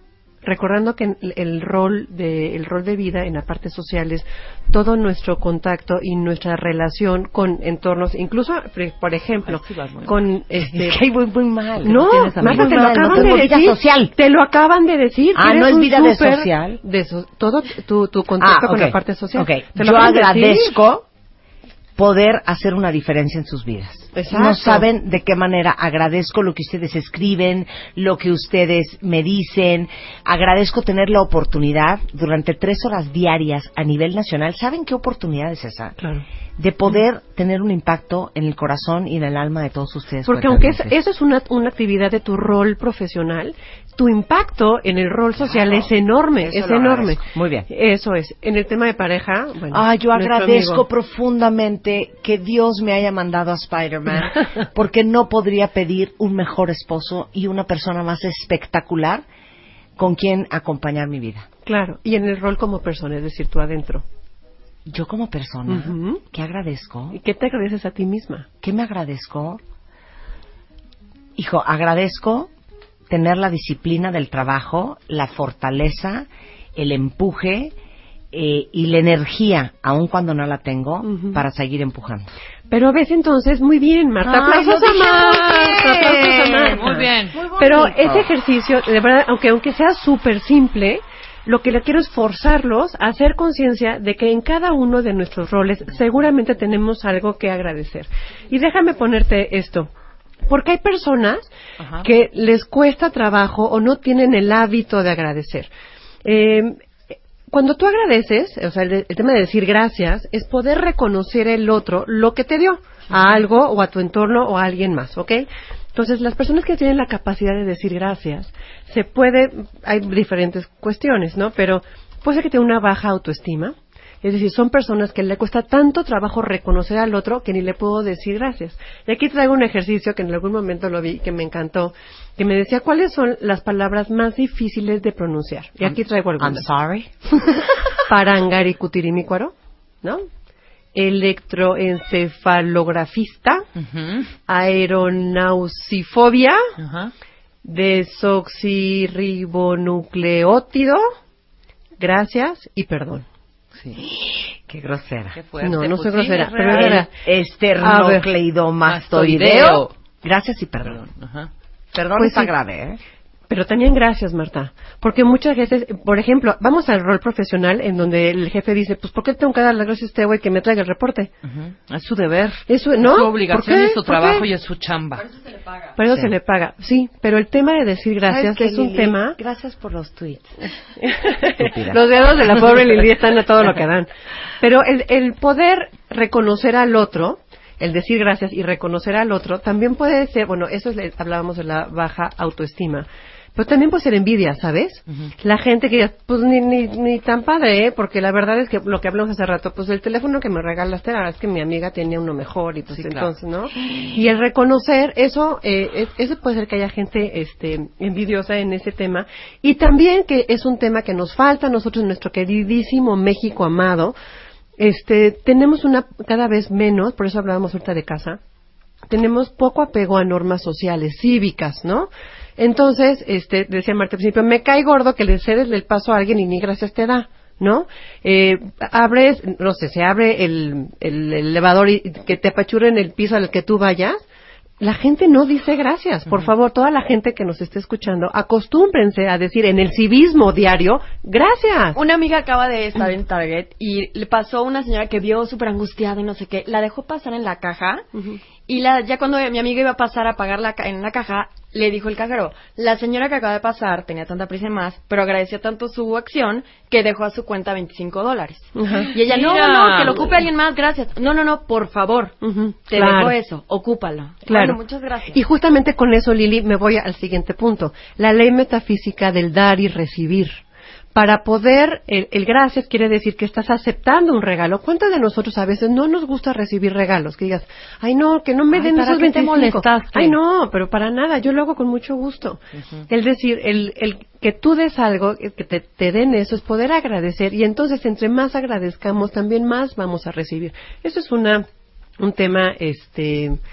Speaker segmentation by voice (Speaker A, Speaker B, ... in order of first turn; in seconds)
Speaker A: 0.4-11.0, 11.8-20.8, 24.1-24.8, 36.0-36.2, 40.2-50.8, 61.6-64.0, 65.7-66.2, 67.1-68.5, 81.0-81.4, 82.7-99.9, 100.5-101.5, 102.0-105.7, 106.2-106.8, 107.5-136.7, 138.1-140.2, 140.9-143.7, 144.5-146.6, 147.6-151.0, 152.0-153.2, 155.6-157.1, 157.8-158.3, 162.2-162.5, 163.5-171.3, 172.7-174.5, 175.9-179.4, 181.0-184.1, 184.6-214.2, 214.8-218.4, 219.1-234.2, 234.8-242.0, 258.7-259.1, 262.4-263.3, 264.4-264.8, 265.3-270.6, 271.1-291.6, 292.2-293.6
Speaker B: 9.4-10.2, 86.7-87.4, 101.8-102.1, 143.8-144.3, 146.8-147.1, 155.3-157.1, 158.8-159.9, 160.8-161.5, 171.4-175.3, 202.9-203.3, 259.1-260.1, 278.7-280.4
Speaker C: 10.6-14.1, 15.3-16.8, 18.4-21.1, 21.9-36.0, 36.6-40.9, 45.4-47.7, 49.7-59.2, 60.0-61.5, 64.8-67.2, 68.6-69.6, 71.3-72.5, 73.1-77.7, 78.3-82.3, 84.2-88.3, 135.8-137.5, 154.7-155.4, 156.7-161.0, 161.9-163.0, 176.1-176.3, 178.2-180.5, 181.4-182.7
Speaker D: 241.9-248.0, 248.7-262.4, 262.9-265.4